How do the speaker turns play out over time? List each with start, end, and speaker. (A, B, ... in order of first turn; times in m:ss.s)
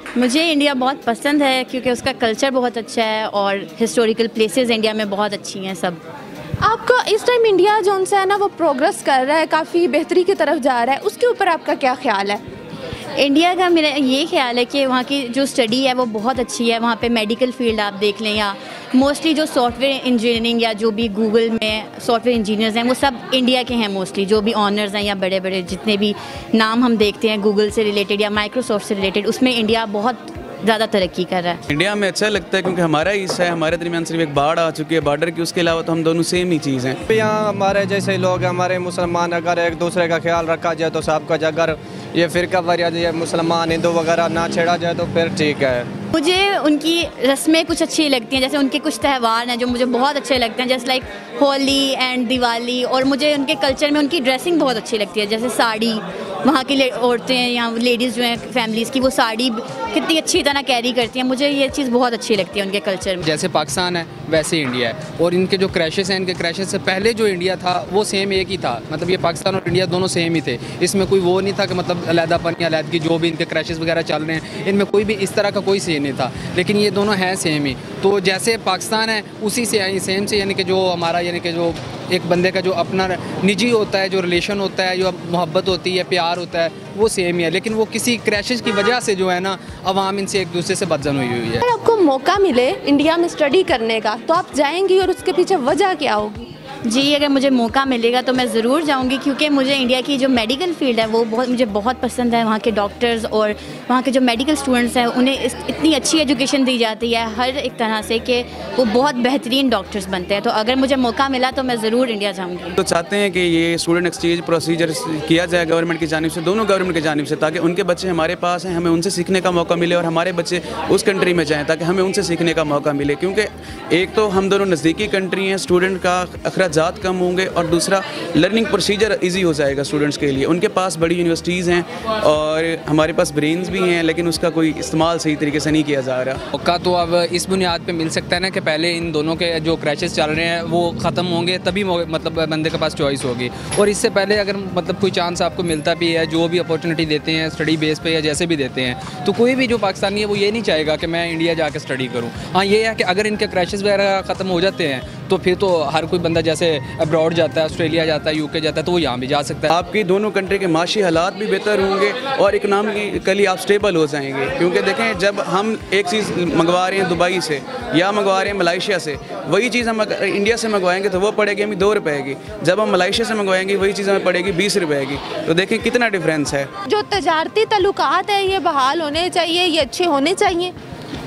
0:00.2-0:06.0 A
0:06.6-0:12.4 B
0:13.2-0:31.6 A
0:31.7-0:37.0 C
0:37.1-0:45.9 D
0:46.1-1:03.2 A
1:03.2-1:31.6 E
1:31.6-1:36.5 B
1:36.9-1:52.8 A
1:52.8-2:16.4 C
2:16.5-2:39.7 E
2:39.7-2:56.7 C
2:56.9-3:00.7 B